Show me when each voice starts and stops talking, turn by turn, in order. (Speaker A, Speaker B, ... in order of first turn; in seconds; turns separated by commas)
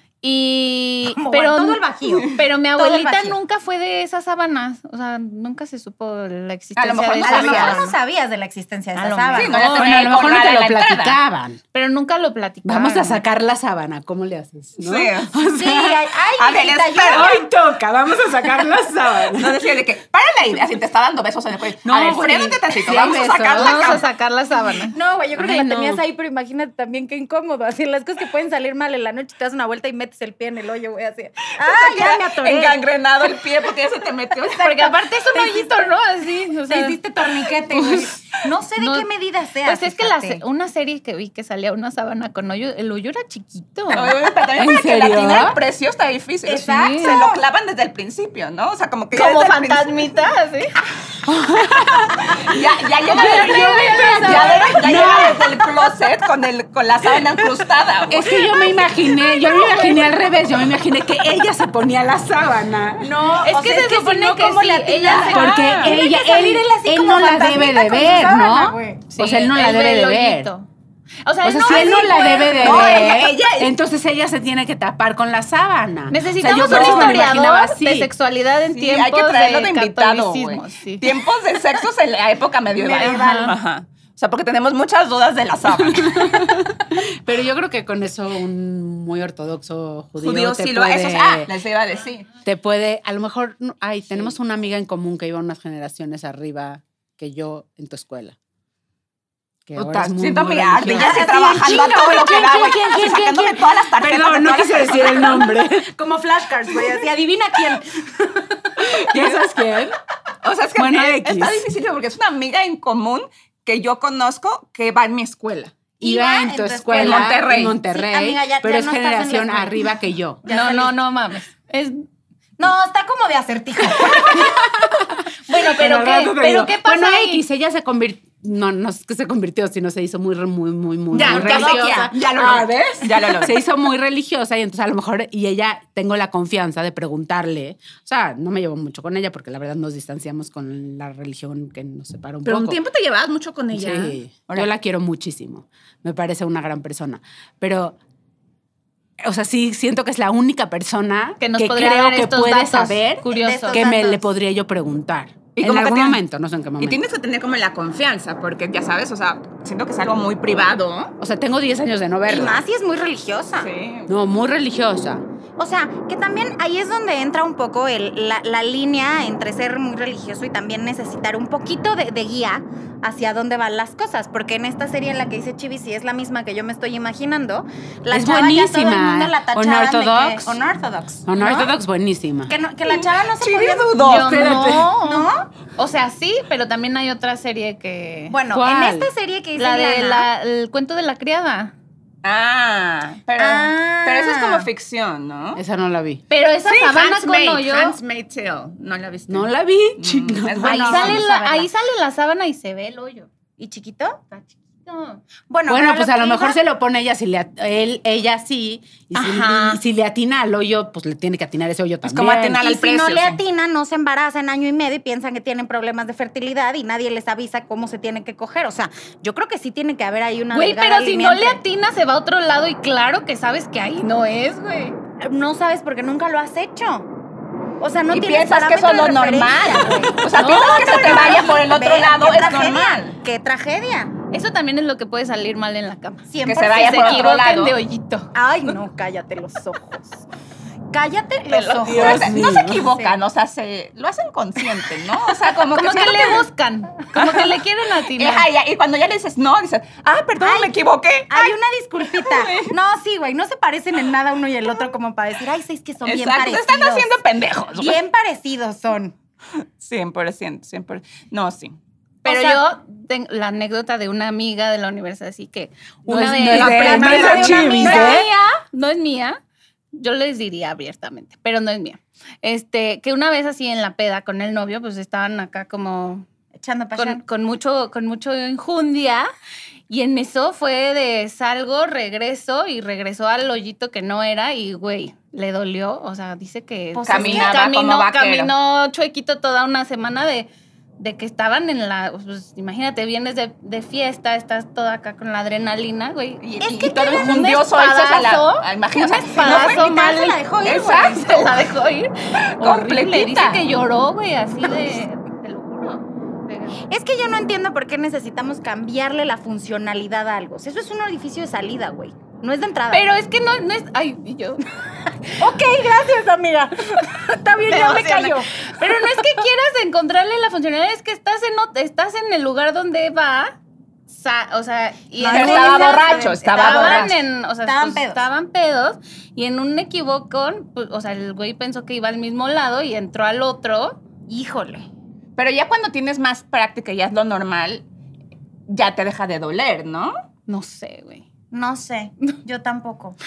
Speaker A: 0.2-8.0, Speaker B: 1.1-3.4, Speaker C: 6.8-7.8, Speaker B: 7.2-9.5, Speaker A: 9.0-10.1, Speaker C: 9.3-11.2, Speaker D: 9.5-11.6, Speaker A: 11.7-13.2, Speaker D: 12.7-16.0, Speaker C: 14.8-15.4, Speaker B: 15.5-17.5, Speaker C: 16.4-17.3, Speaker D: 17.1-19.6, Speaker C: 19.3-24.1, Speaker D: 21.9-24.0, Speaker A: 23.6-25.0, Speaker B: 24.8-32.8, Speaker D: 25.4-26.0, Speaker C: 31.6-34.9, Speaker A: 34.6-37.0, Speaker B: 34.7-35.9, Speaker B: 36.7-40.4, Speaker A: 38.8-39.1, Speaker A: 39.6-44.2, Speaker C: 43.9-50.1, Speaker D: 44.5-45.6, Speaker B: 46.5-47.4, Speaker A: 46.6-47.2, Speaker A: 49.1-50.7, Speaker D: 51.3-55.6, Speaker C: 52.3-58.3, Speaker A: 53.1-55.1, Speaker D: 58.1-63.1, Speaker B: 58.3-60.1, Speaker B: 63.0-69.0, Speaker A: 63.4-65.8, Speaker C: 65.1-65.9, Speaker D: 65.1-70.5, Speaker A: 69.1-70.7, Speaker A: 71.2-73.2, Speaker D: 71.4-78.1, Speaker C: 72.6-73.7, Speaker A: 76.1-81.1, Speaker C: 76.7-77.3, Speaker C: 78.7-86.4, Speaker B: 82.8-83.5, Speaker A: 83.0-83.6, Speaker D: 85.9-91.5, Speaker C: 90.2-92.3, Speaker D: 92.5-98.4, Speaker D: 99.7-106.0, Speaker C: 99.8-105.5, Speaker B: 101.0-102.1, Speaker B: 105.1-108.8, Speaker D: 106.7-107.0, Speaker D: 108.8-110.0, Speaker C: 109.1-109.4, Speaker C: 110.4-115.8, Speaker D: 110.8-111.7, Speaker B: 116.0-119.9, Speaker D: 116.0-120.4, Speaker C: 116.9-117.8, Speaker B: 120.4-121.0, Speaker A: 120.5-122.0, Speaker B: 122.6-124.9, Speaker D: 124.1-124.9, Speaker A: 125.5-127.4, Speaker D: 125.5-142.8, Speaker C: 131.1-133.6, Speaker B: 131.1-132.1, Speaker C: 142.4-144.7, Speaker D: 143.7-148.0, Speaker D: 149.2-157.0, Speaker A: 151.4-153.9, Speaker B: 153.3-154.2, Speaker C: 155.6-156.2, Speaker C: 156.8-161.1, Speaker D: 161.2-162.6, Speaker B: 162.3-163.7, Speaker C: 163.6-164.1, Speaker D: 164.1-165.2, Speaker B: 165.6-181.7, Speaker D: 178.1-180.6, Speaker D: 181.3-182.6, Speaker B: 182.5-185.5, Speaker C: 182.8-184.7, Speaker A: 184.0-188.4, Speaker D: 184.2-184.9, Speaker B: 188.3-190.3, Speaker D: 188.5-189.1, Speaker A: 189.6-191.7, Speaker C: 192.2-195.6, Speaker B: 193.4-194.7, Speaker D: 195.6-196.2, Speaker A: 196.3-198.0, Speaker C: 196.6-201.2, Speaker D: 199.3-201.2, Speaker B: 200.6-201.7, Speaker A: 200.9-203.3, Speaker B: 203.6-204.2, Speaker A: 204.3-205.2, Speaker B: 205.5-206.6, Speaker D: 205.7-212.6, Speaker A: 209.2-209.8, Speaker C: 212.0-213.4, Speaker B: 212.6-221.6, Speaker A: 220.5-225.0, Speaker B: 225.2-227.1, Speaker B: 227.8-234.1, Speaker C: 228.1-233.2, Speaker A: 230.3-231.6, Speaker A: 234.3-238.3, Speaker B: 236.3-237.3, Speaker C: 236.4-237.8, Speaker B: 238.3-240.2, Speaker B: 240.9-243.1, Speaker C: 241.5-246.4, Speaker D: 241.8-242.8, Speaker A: 245.7-248.5, Speaker C: 247.2-247.5, Speaker C: 248.2-251.5, Speaker B: 250.4-250.7, Speaker B: 251.3-257.1, Speaker C: 252.1-252.7, Speaker C: 256.0-258.0, Speaker B: 257.7-259.1, Speaker C: 259.6-261.8, Speaker A: 262.2-269.4, Speaker B: 262.2-262.6, Speaker D: 266.1-268.3, Speaker C: 266.5-268.1, Speaker B: 266.6-268.3, Speaker A: 269.9-276.3, Speaker B: 276.5-277.2, Speaker A: 277.0-279.3, Speaker A: 279.9-296.5, Speaker B: 286.9-287.6, Speaker C: 287.1-288.5, Speaker C: 296.4-299.8, Speaker B: 296.6-297.4, Speaker A: 297.1-300.4, Speaker B: 299.4-301.3, Speaker C: 300.6-301.6, Speaker A: 300.9-306.8, Speaker C: 302.5-303.7, Speaker B: 306.9-313.1, Speaker A: 312.9-314.7, Speaker B: 315.4-318.9, Speaker A: 317.7-323.6, Speaker A: 324.1-334.0, Speaker B: 325.2-328.2, Speaker C: 325.3-327.1, Speaker B: 334.3-334.9, Speaker C: 335.4-337.9, Speaker C: 338.7-340.1, Speaker A: 340.5-341.3, Speaker B: 341.5-343.2